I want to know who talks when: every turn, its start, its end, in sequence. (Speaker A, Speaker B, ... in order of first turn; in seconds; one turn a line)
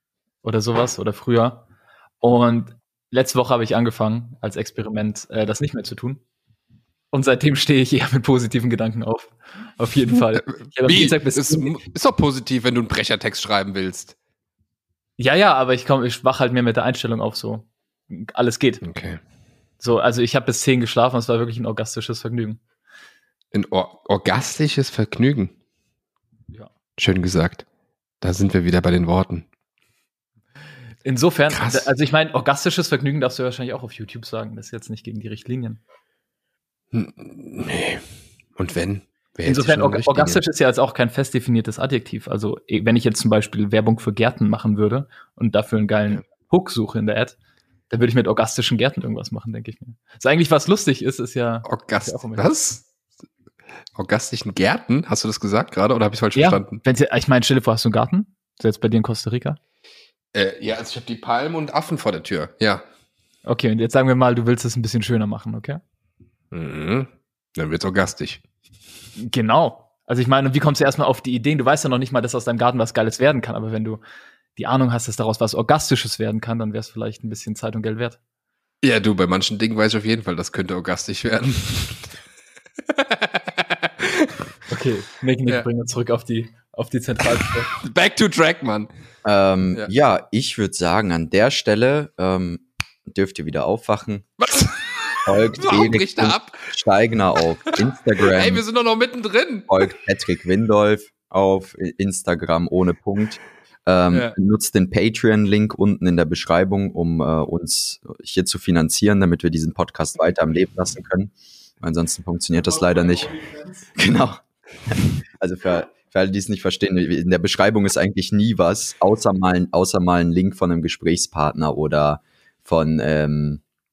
Speaker A: 0.4-1.7
Speaker A: 2.2-6.2
Speaker A: 7.1-11.8
Speaker B: 10.5-14.1
Speaker A: 15.2-18.8
Speaker B: 18.8-19.2
Speaker A: 19.8-22.6
Speaker B: 23.5-25.5
Speaker B: 27.0-27.6
Speaker B: 28.2-29.4
Speaker A: 31.0-35.8
Speaker B: 31.5-31.9
Speaker B: 36.9-38.0
Speaker B: 38.5-40.4
Speaker A: 39.4-47.4
Speaker A: 47.9-52.5
Speaker B: 51.6-52.9
Speaker B: 54.0-56.8
Speaker A: 56.3-59.6
Speaker B: 60.3-62.8
Speaker A: 63.4-65.8
Speaker B: 66.5-68.4
Speaker A: 69.2-74.0
Speaker A: 74.5-78.2
Speaker B: 78.8-82.1
Speaker B: 82.9-84.3
Speaker A: 84.7-87.7
Speaker B: 87.8-88.9
Speaker C: 89.2-94.3
Speaker B: 94.4-96.7
Speaker C: 95.2-98.6
Speaker B: 98.2-99.7
Speaker C: 99.7-123.6